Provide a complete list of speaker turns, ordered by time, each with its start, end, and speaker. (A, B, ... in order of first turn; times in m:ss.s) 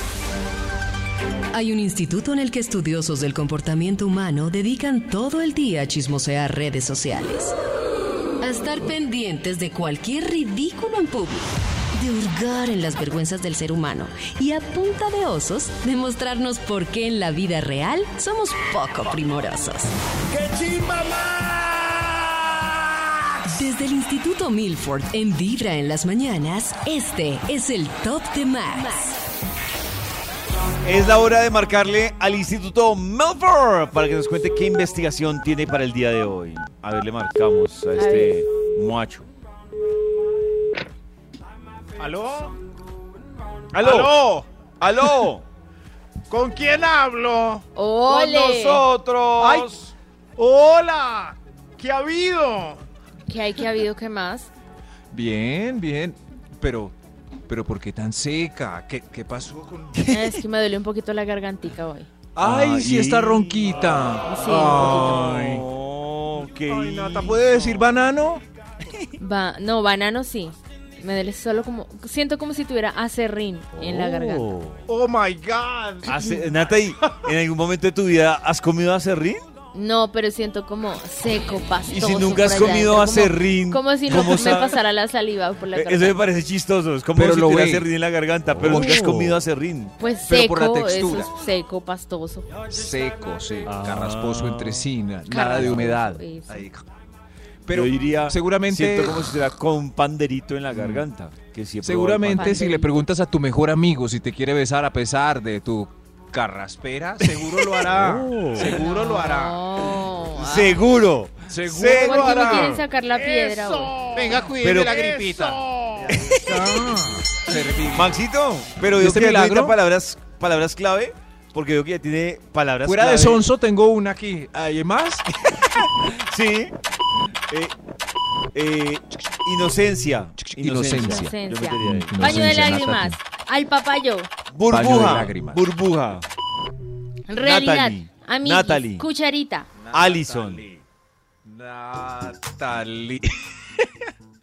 0:01.5-0:07.6 A
0:08.4-0:19.9 A
0:20.3-0:22.5 B
0:23.5-0:29.2 A
0:30.8-0:39.3 C
0:38.0-0:38.3 D
0:42.0-0:42.5 E
0:43.7-0:44.1 C
0:43.8-0:44.4 E
0:44.8-0:45.4 C
0:46.3-0:47.6 B
0:47.7-0:48.8 D
0:48.1-0:49.8 C
0:49.4-0:52.2 E
0:50.4-0:52.8 B
0:53.3-0:54.5 D
0:55.1-0:56.9 E
0:57.5-1:00.0 E
1:00.0-1:00.4 C
1:00.1-1:02.1 D
1:02.4-1:05.6 E
1:02.4-1:07.8 C
1:04.2-1:05.3 D
1:06.7-1:08.4 E
1:09.2-1:14.5 D
1:13.8-1:14.8 C
1:14.9-1:16.8 E
1:16.0-1:19.4 C
1:19.7-1:26.2 D
1:21.9-1:24.8 C
1:24.1-1:24.5 E
1:25.7-1:29.9 C
1:27.1-1:27.9 E
1:28.6-1:29.4 E
1:30.0-1:32.5 D
1:30.2-1:31.3 E
1:32.7-1:36.8 E
1:33.7-1:34.9 C
1:35.2-1:36.7 D
1:37.6-1:39.4 E
1:37.7-1:42.6 C
1:40.7-1:41.0 E
1:41.8-1:49.6 E
1:42.3-1:42.9 D
1:47.3-1:48.8 C
1:48.6-1:50.8 D
1:50.3-1:52.8 C
1:51.5-1:52.8 E
1:51.8-1:54.1 D
1:53.2-1:56.2 B
1:54.2-1:58.2 E
1:54.6-1:55.0 C
1:56.1-1:56.6 C
1:57.9-2:03.4 C
1:58.9-1:59.8 E
2:02.8-2:05.2 E
2:05.6-2:06.7 C
2:07.5-2:07.7 C
2:08.5-2:12.2 C
2:10.4-2:13.2 E
2:11.0-2:14.3 D
2:14.5-2:16.3 C
2:14.7-2:15.6 E
2:17.3-2:19.7 D
2:17.4-2:19.0 C
2:19.8-2:20.8 E
2:19.9-2:20.6 C
2:21.4-2:23.9 E